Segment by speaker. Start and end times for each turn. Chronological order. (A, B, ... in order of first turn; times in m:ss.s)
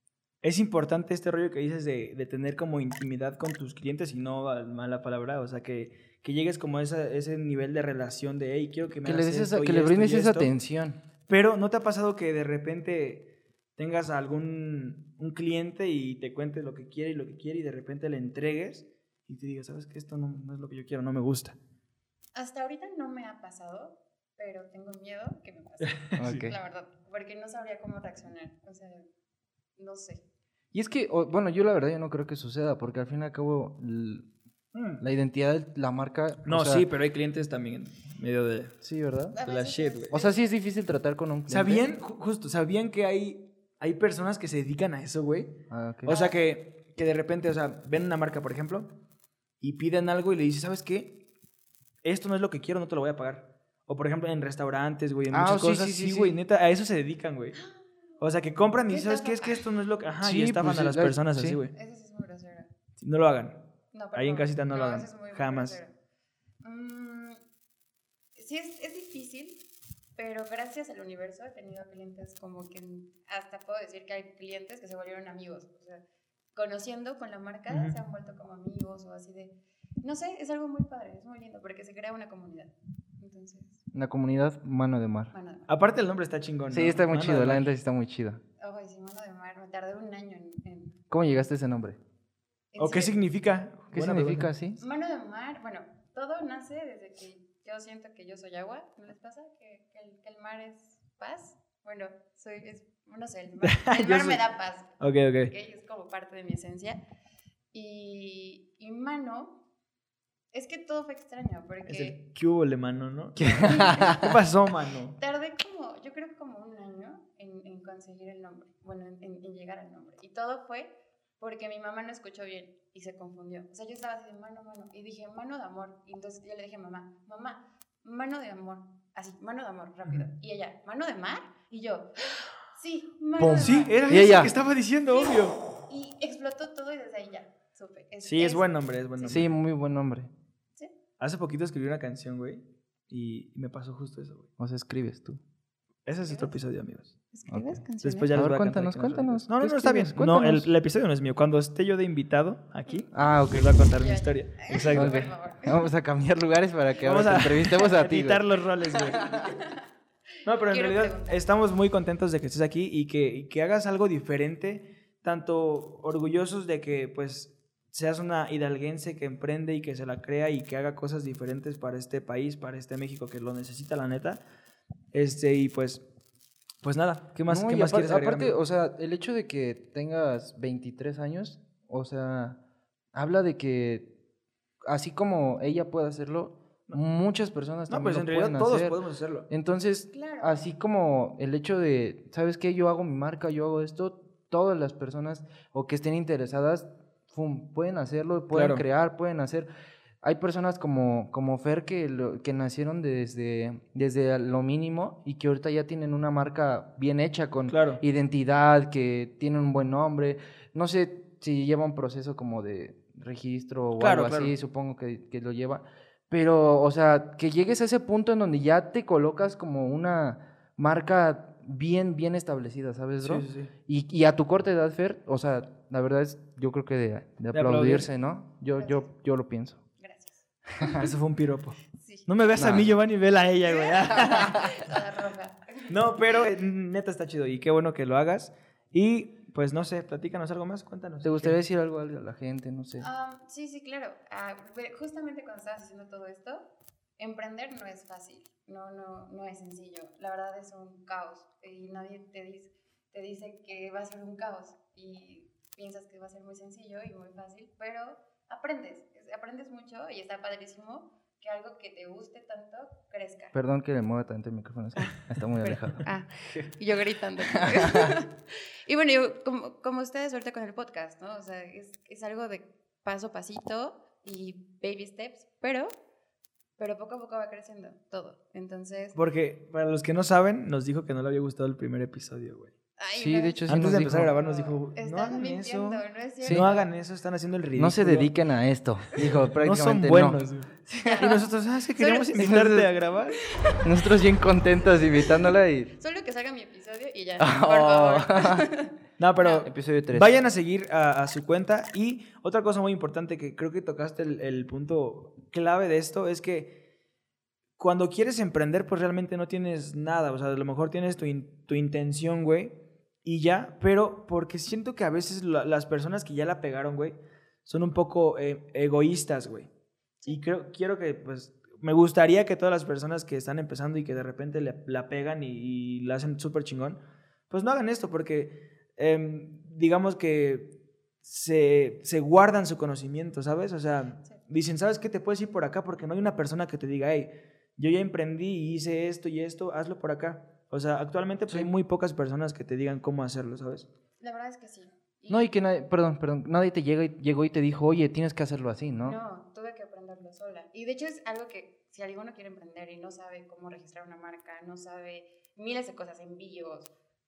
0:00.4-0:10.5 A
0:09.0-0:11.0 B
0:11.3-0:21.6 A
0:22.3-0:29.1 C
0:25.9-0:26.5 A
0:26.2-0:26.5 B
0:29.8-0:30.2 C
0:30.7-0:34.3 B
0:34.7-0:35.0 A
0:35.0-0:36.8 B
0:36.4-0:38.7 A
0:38.8-0:39.4 B
0:39.3-0:40.4 C
0:39.4-0:40.2 A
0:40.1-0:41.9 B
0:41.5-0:48.9 A
0:45.7-0:46.2 B
0:46.1-0:46.4 C
0:49.6-0:51.2 A
0:52.0-0:57.6 A
0:55.3-0:56.4 B
0:57.5-0:57.9 C
0:58.2-1:01.7 A
0:58.9-0:59.7 C
1:00.2-1:01.6 B
1:01.7-1:02.7 C
1:03.0-1:03.6 A
1:03.9-1:05.9 C
1:04.1-1:05.8 A
1:06.6-1:07.4 C
1:08.3-1:09.6 C
1:10.2-1:16.0 C
1:16.5-1:23.8 C
1:17.7-1:18.0 A
1:23.9-1:25.3 B
1:25.3-1:25.7 C
1:25.7-1:27.7 A
1:26.7-1:28.4 B
1:28.6-1:31.0 C
1:31.1-1:32.0 B
1:32.7-1:33.1 C
1:32.8-1:34.5 A
1:33.9-1:34.8 B
1:34.8-1:45.0 C
1:43.6-1:44.4 A
1:45.0-1:45.5 A
1:45.5-1:47.0 C
1:47.7-1:49.6 C
1:50.5-1:52.2 C
1:51.8-1:55.2 A
1:53.4-1:54.3 B
1:53.6-1:54.2 C
1:55.2-2:14.5 C
2:13.4-2:15.6 A
2:13.4-2:14.5 B
2:15.1-2:19.5 C
2:18.2-2:19.5 A
2:19.2-2:20.3 B
2:21.2-2:24.5 A
2:24.6-2:25.4 B
2:26.0-2:27.1 A
2:26.2-2:26.6 C
2:27.3-2:28.3 C
2:27.5-2:27.8 B
2:28.0-2:35.2 A
2:28.3-2:30.7 B
2:32.9-2:33.3 C
2:33.1-2:33.8 B
2:33.9-2:35.9 C
2:34.9-2:38.4 B
2:37.0-2:39.5 A
2:39.1-2:39.8 C
2:40.4-2:54.4 A
2:40.7-2:41.5 C
2:55.1-2:56.0 A
2:56.8-2:58.6 A
2:57.5-3:02.6 B
3:03.1-3:04.1 B
3:04.8-3:09.0 B
3:07.9-3:09.5 A
3:09.5-3:19.7 B
3:10.1-3:10.7 C
3:18.5-3:18.8 A
3:20.2-3:49.8 B
3:27.7-3:28.0 A
3:34.0-3:34.5 A
3:43.2-3:43.7 A
3:47.5-3:48.1 A
3:48.8-3:49.1 C
3:50.0-3:51.0 C
3:50.8-3:51.1 B
3:50.9-3:54.9 A
3:51.9-3:52.3 C
3:52.6-3:52.9 B
3:53.6-3:55.9 C
3:54.4-3:54.7 B
3:55.9-4:01.6 A
4:01.2-4:03.0 B
4:03.0-4:06.7 C
4:07.2-4:23.5 C
4:23.5-4:26.0 B
4:25.0-4:35.9 C
4:27.5-4:28.1 B
4:36.8-4:39.2 C
4:39.1-4:42.7 A
4:43.0-4:46.9 C
4:43.2-4:44.3 B
4:43.7-4:48.3 A
4:47.8-4:51.3 B
4:49.2-4:53.4 A
4:51.0-4:52.4 C
4:52.4-4:52.9 B
4:53.4-4:53.9 C
4:53.8-4:55.9 B
4:55.9-4:59.7 C
4:57.4-4:58.7 B
4:59.2-5:06.8 A
4:59.6-5:00.3 B
5:07.8-5:19.7 A
5:20.3-5:27.0 A
5:27.5-5:43.9 A
5:44.2-5:45.5 C
5:45.3-5:49.2 B
5:49.0-5:56.9 C